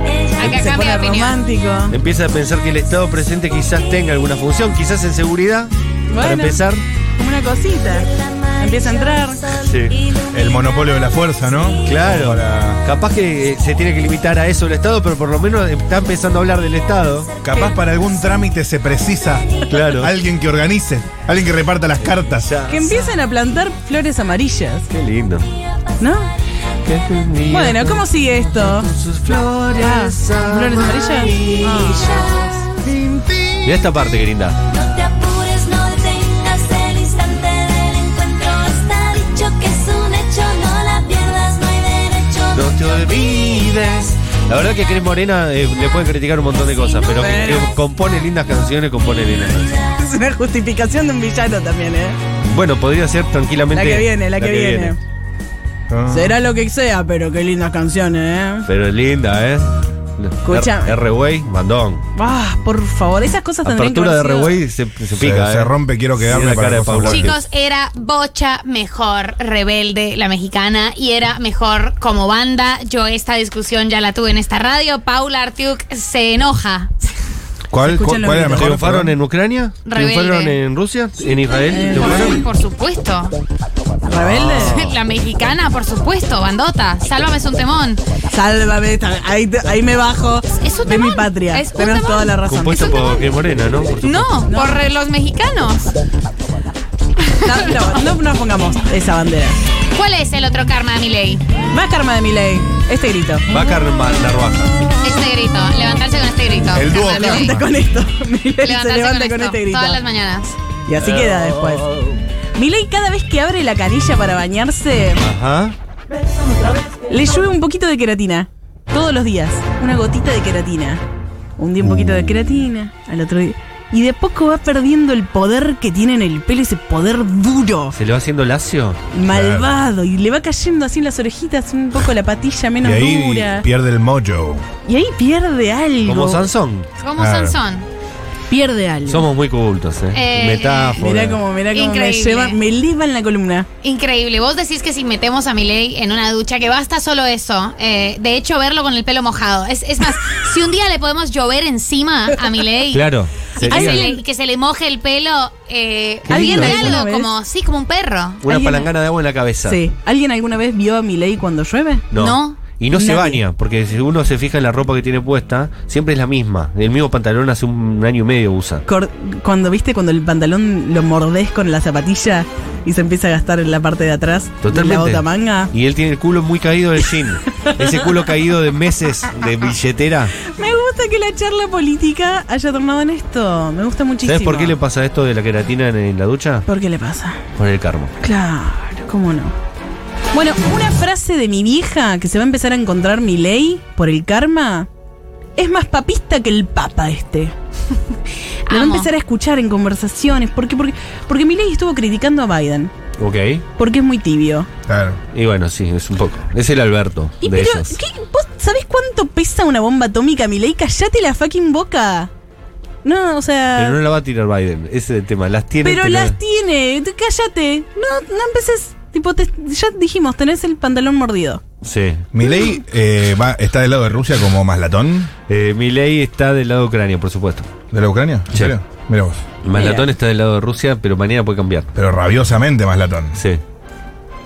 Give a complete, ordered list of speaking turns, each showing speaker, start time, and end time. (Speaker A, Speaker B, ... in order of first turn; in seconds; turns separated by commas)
Speaker A: 0.4-2.0, Speaker B: 0.4-1.4, Speaker C: 1.9-6.8, Speaker A: 6.1-9.5, Speaker C: 9.5-9.9, Speaker D: 10.2-12.8, Speaker C: 11.8-17.4, Speaker D: 17.4-22.5, Speaker C: 19.7-20.1, Speaker C: 22.1-23.2, Speaker A: 22.7-24.9, Speaker C: 24.9-25.5, Speaker A: 26.0-26.3, Speaker C: 26.8-34.6, Speaker A: 27.5-28.9, Speaker A: 29.7-32.5, Speaker E: 34.8-42.1, Speaker C: 42.2-49.9, Speaker A: 47.1-47.7, Speaker A: 50.0-52.2, Speaker C: 52.5-55.0, Speaker A: 53.7-55.0, Speaker D: 55.9-56.4, Speaker A: 56.1-58.7, Speaker C: 58.6-62.1, Speaker A: 60.4-61.0, Speaker A: 62.1-64.6, Speaker C: 63.6-67.4, Speaker D: 65.2-67.4, Speaker B: 67.1-77.1, Speaker D: 77.7-79.1, Speaker A: 77.8-78.8, Speaker C: 78.5-82.4, Speaker B: 79.8-80.6, Speaker B: 81.3-83.4, Speaker A: 81.7-82.4, Speaker A: 84.0-84.8, Speaker C: 84.1-85.0, Speaker B: 84.6-88.0, Speaker A: 88.3-93.2, Speaker B: 90.6-92.4, Speaker C: 92.4-94.4, Speaker B: 94.0-96.0, Speaker A: 94.4-94.8, Speaker B: 97.2-98.0, Speaker A: 97.4-99.6, Speaker B: 99.9-101.4, Speaker A: 101.7-103.5, Speaker C: 103.5-104.9, Speaker B: 105.0-107.6, Speaker D: 106.7-107.7, Speaker A: 107.0-110.0, Speaker B: 108.6-110.6, Speaker A: 110.8-112.0, Speaker C: 111.2-111.7, Speaker A: 112.5-115.2, Speaker C: 115.2-115.8, Speaker A: 117.1-121.0, Speaker A: 121.6-128.0, Speaker C: 127.9-129.0, Speaker A: 129.1-133.7, Speaker D: 129.3-129.7, Speaker D: 132.8-134.6, Speaker A: 134.8-136.4, Speaker C: 136.0-136.9, Speaker B: 137.0-137.9, Speaker D: 137.2-137.6, Speaker A: 138.5-139.3, Speaker C: 139.1-141.4, Speaker B: 140.1-141.0, Speaker A: 141.0-143.7, Speaker B: 141.7-142.6, Speaker B: 143.8-158.4, Speaker C: 152.9-154.1, Speaker A: 153.6-154.2, Speaker C: 156.2-157.0, Speaker A: 156.3-157.3, Speaker C: 158.4-159.8, Speaker A: 158.4-158.9, Speaker A: 159.6-162.1, Speaker C: 162.1-168.8, Speaker B: 162.1-162.6, Speaker A: 162.9-163.4, Speaker A: 168.8-175.7, Speaker C: 174.6-180.4, Speaker A: 180.4-184.8, Speaker C: 184.2-186.6, Speaker A: 186.7-187.4, Speaker C: 187.6-188.1, Speaker A: 188.2-189.6, Speaker A: 190.3-194.9, Speaker A: 195.6-197.5, Speaker B: 198.7-199.1, Speaker A: 198.7-202.9, Speaker C: 203.2-203.6, Speaker A: 203.8-204.7, Speaker D: 204.9-205.2, Speaker C: 205.3-208.0, Speaker A: 207.4-212.3, Speaker A: 213.0-214.0, Speaker C: 213.8-216.3, Speaker A: 215.8-221.6, Speaker C: 221.8-222.2, Speaker D: 222.3-225.3, Speaker A: 222.4-222.8, Speaker C: 225.5-227.7, Speaker D: 227.9-229.4, Speaker C: 229.6-231.9, Speaker A: 229.7-230.1, Speaker D: 231.9-233.4